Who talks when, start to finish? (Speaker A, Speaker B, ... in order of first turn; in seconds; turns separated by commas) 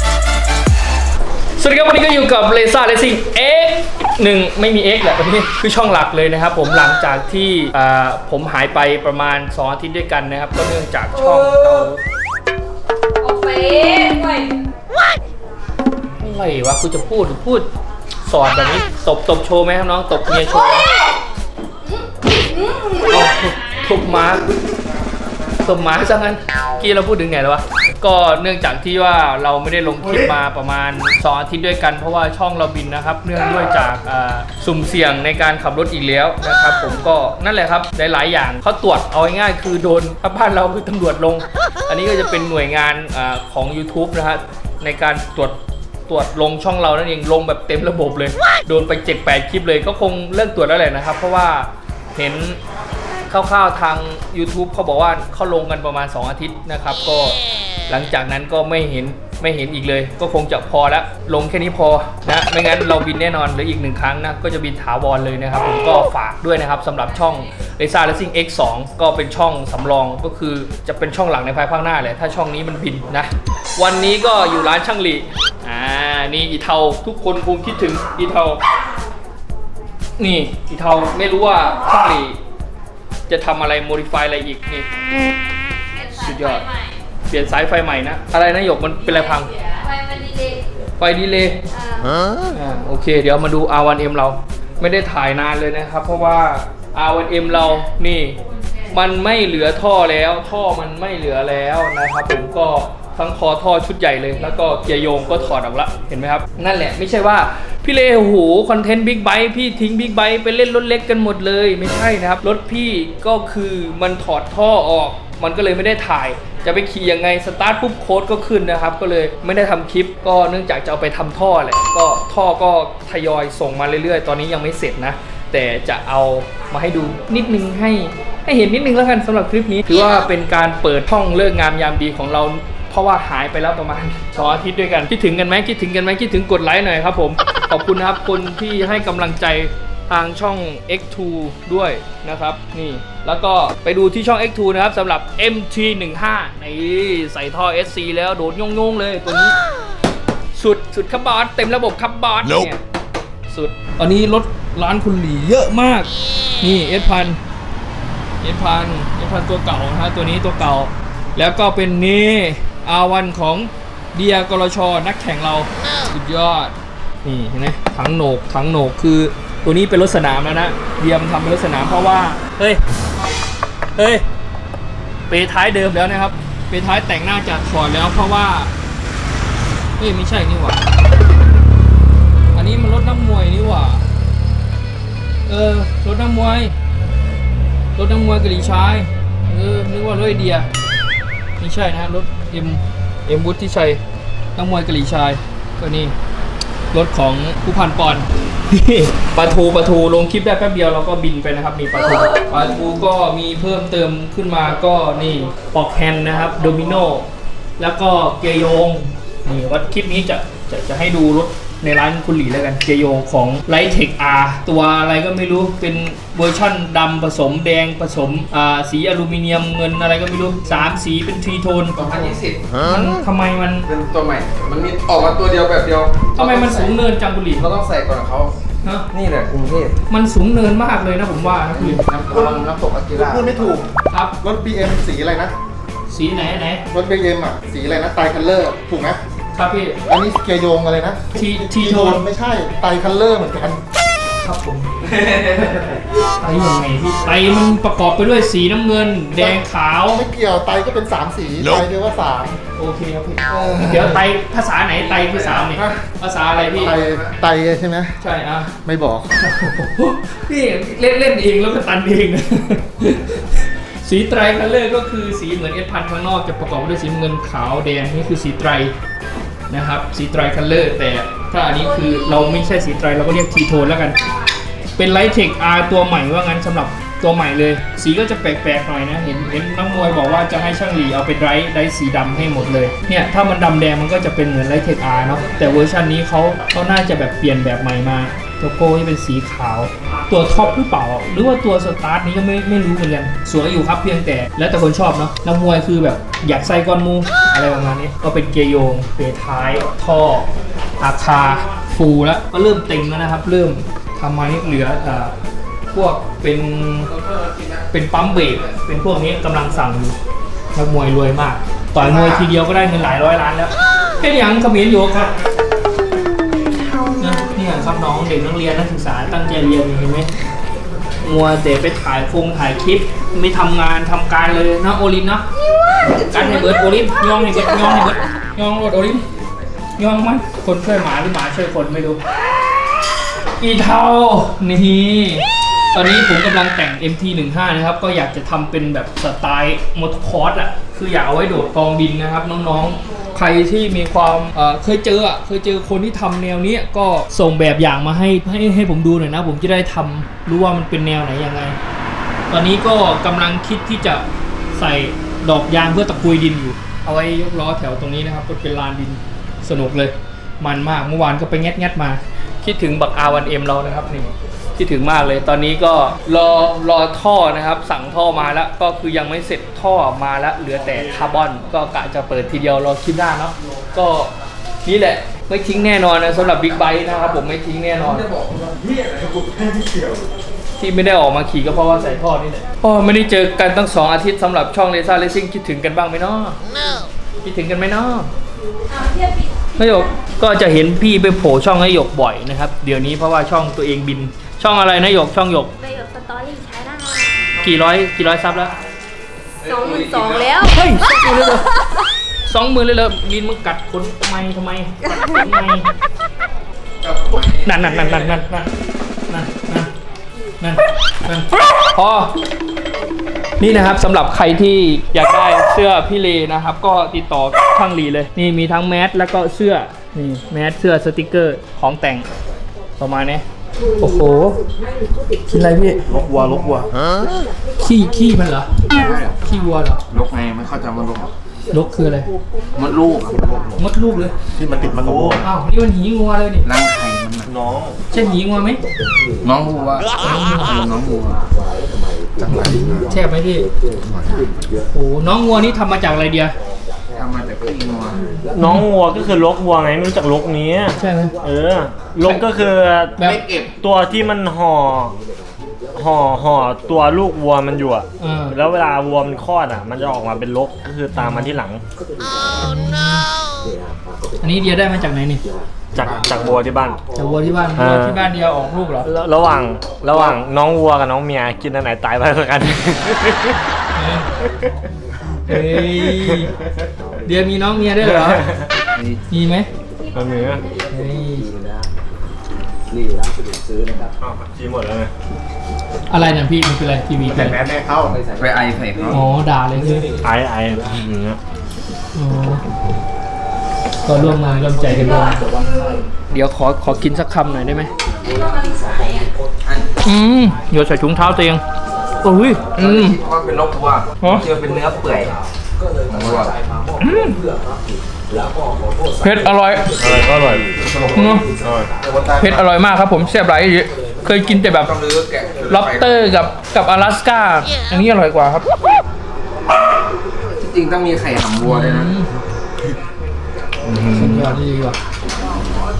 Speaker A: 1.6-12.0, Speaker B: 13.2-14.6, Speaker A: 16.2-17.7, Speaker A: 18.3-20.9, Speaker B: 22.5-22.9, Speaker A: 23.1-24.4, Speaker A: 25.6-52.6, Speaker A: 53.3-78.6, Speaker A: 80.2-82.4, Speaker A: 83.3-84.9, Speaker A: 86.1-86.7, Speaker A: 87.3-89.5, Speaker B: 89.8-90.6, Speaker A: 91.0-91.6, Speaker B: 91.8-92.1, Speaker A: 92.5-98.4, Speaker A: 98.9-149.5, Speaker A: 150.5-152.8, Speaker A: 153.5-156.1, Speaker A: 156.6-157.4, Speaker A: 158.4-172.8, Speaker A: 173.9-174.2, Speaker A: 175.3-178.7, Speaker A: 180.0-180.8, Speaker A: 182.5-184.0, Speaker A: 185.5-186.8, Speaker A: 187.9-190.7, Speaker A: 191.6-194.0, Speaker A: 194.6-196.1, Speaker A: 196.9-207.3, Speaker A: 207.8-222.0, Speaker C: 221.9-222.6, Speaker A: 222.8-223.9, Speaker C: 223.9-226.9, Speaker A: 226.3-227.7, Speaker C: 227.5-228.5, Speaker C: 229.1-229.9, Speaker A: 230.1-232.0, Speaker C: 231.7-233.8, Speaker D: 232.3-232.6, Speaker D: 233.2-233.9, Speaker A: 234.1-234.3, Speaker D: 234.4-235.5, Speaker A: 236.1-236.8, Speaker D: 236.9-239.2, Speaker A: 239.5-240.0, Speaker D: 240.1-243.8, Speaker A: 241.3-242.2, Speaker A: 244.4-244.9, Speaker C: 245.0-246.0, Speaker A: 246.2-250.2, Speaker D: 250.1-252.6, Speaker A: 252.8-256.9, Speaker C: 253.6-254.0, Speaker C: 255.0-255.7, Speaker D: 255.7-256.0, Speaker C: 256.5-257.3, Speaker D: 256.8-258.2, Speaker A: 258.2-258.8, Speaker D: 258.8-259.3, Speaker A: 259.4-268.9, Speaker A: 269.7-274.2, Speaker A: 275.0-300.5, Speaker A: 301.0-305.3, Speaker A: 305.9-307.1, Speaker C: 307.2-307.8, Speaker A: 307.9-310.2, Speaker A: 310.8-315.3, Speaker C: 312.0-312.4, Speaker A: 317.0-320.3, Speaker A: 321.2-325.4, Speaker A: 326.2-329.2, Speaker A: 330.0-332.2, Speaker A: 333.6-351.8, Speaker A: 352.5-374.3, Speaker A: 374.9-378.3, Speaker C: 378.0-380.1, Speaker A: 380.8-386.6, Speaker A: 387.4-388.3, Speaker B: 389.0-389.5, Speaker A: 389.8-395.7, Speaker B: 395.8-397.4, Speaker A: 397.6-398.7, Speaker C: 399.6-400.5, Speaker B: 399.7-400.7, Speaker A: 400.6-401.7, Speaker A: 402.5-405.9, Speaker C: 407.0-408.4, Speaker A: 407.5-408.7, Speaker A: 409.3-409.9, Speaker A: 410.6-412.3, Speaker A: 413.6-422.3, Speaker A: 423.0-423.4, Speaker A: 424.0-424.6, Speaker A: 425.5-426.0, Speaker C: 426.1-426.9, Speaker A: 427.8-428.7, Speaker C: 428.9-429.3, Speaker A: 429.4-430.0, Speaker C: 430.1-431.3, Speaker A: 431.7-432.3, Speaker C: 432.8-433.8, Speaker A: 433.8-434.3, Speaker D: 434.6-435.4, Speaker E: 434.8-435.4, Speaker A: 435.4-436.7, Speaker C: 436.6-437.5, Speaker E: 437.5-438.0, Speaker A: 438.1-438.8, Speaker C: 439.4-441.4, Speaker A: 440.2-440.7, Speaker C: 442.4-443.0, Speaker D: 442.4-443.1, Speaker A: 442.9-443.7, Speaker A: 444.9-446.5, Speaker C: 447.1-448.2, Speaker E: 448.6-453.2, Speaker A: 448.6-448.9, Speaker A: 451.0-451.4, Speaker C: 453.2-453.7, Speaker E: 453.8-455.1, Speaker E: 455.9-461.8, Speaker A: 458.2-458.6, Speaker A: 461.1-461.6, Speaker A: 462.6-463.2, Speaker A: 464.4-465.4, Speaker E: 465.9-467.0, Speaker A: 467.1-469.1, Speaker E: 467.8-468.2, Speaker E: 469.1-473.6, Speaker A: 473.9-474.3, Speaker A: 475.5-476.5, Speaker A: 477.2-478.5, Speaker E: 478.0-478.7, Speaker A: 479.3-479.7, Speaker E: 480.1-480.6, Speaker A: 480.9-481.5, Speaker E: 484.2-485.1, Speaker A: 486.1-487.6, Speaker D: 487.3-488.2, Speaker C: 488.3-489.2, Speaker A: 489.1-490.1, Speaker E: 490.2-491.4, Speaker A: 492.1-492.6, Speaker A: 494.1-495.5, Speaker A: 496.3-497.9, Speaker B: 498.3-499.3, Speaker A: 500.0-501.6, Speaker A: 502.2-503.2, Speaker C: 502.7-505.4, Speaker A: 504.2-504.4, Speaker C: 506.1-506.5, Speaker A: 507.0-507.4, Speaker A: 509.2-509.9, Speaker E: 510.0-510.7, Speaker A: 511.1-511.4, Speaker E: 511.6-511.9, Speaker C: 512.0-512.6, Speaker A: 512.4-514.9, Speaker C: 514.8-516.1, Speaker A: 515.7-518.6, Speaker C: 520.6-522.1, Speaker A: 521.6-522.3, Speaker C: 523.9-524.5, Speaker A: 524.1-525.0